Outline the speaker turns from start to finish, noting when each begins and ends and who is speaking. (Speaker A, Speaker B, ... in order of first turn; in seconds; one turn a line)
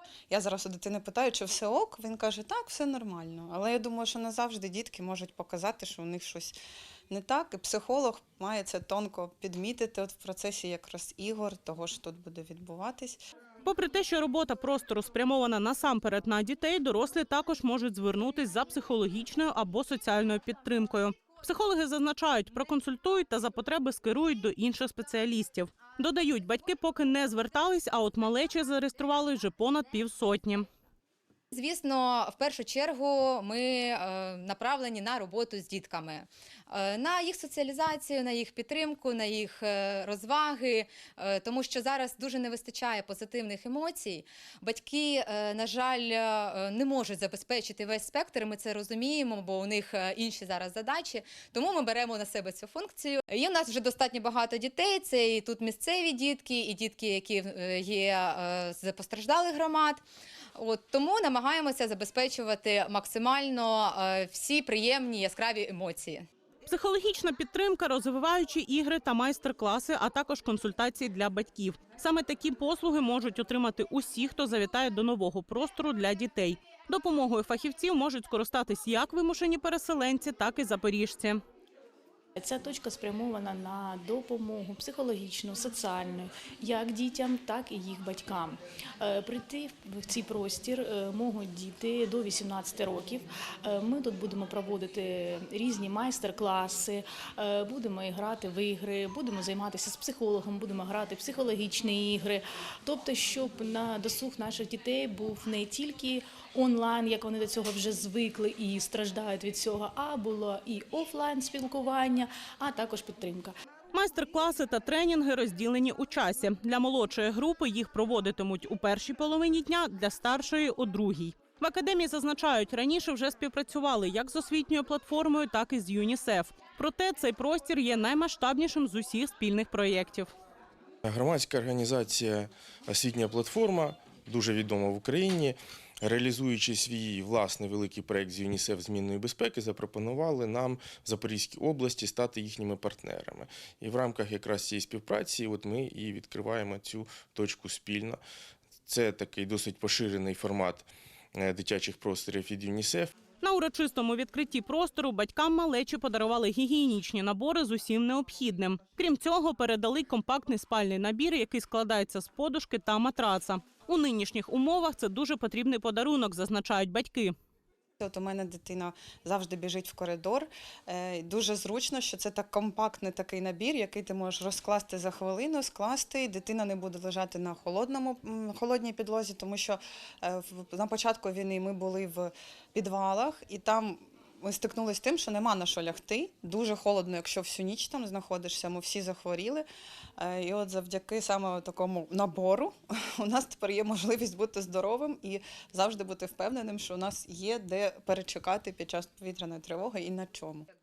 Speaker A: 0.3-6.5
Speaker A: 7.1-13.2
Speaker B: 13.6-30.7
Speaker C: 31.5-60.0
Speaker C: 60.6-66.3
Speaker B: 66.7-81.4
Speaker D: 82.4-113.5
Speaker B: 113.9-130.3
Speaker E: 131.0-148.2
Speaker E: 148.9-153.1
Speaker B: 153.4-167.3
Speaker A: 168.0-189.7
Speaker A: 190.2-200.7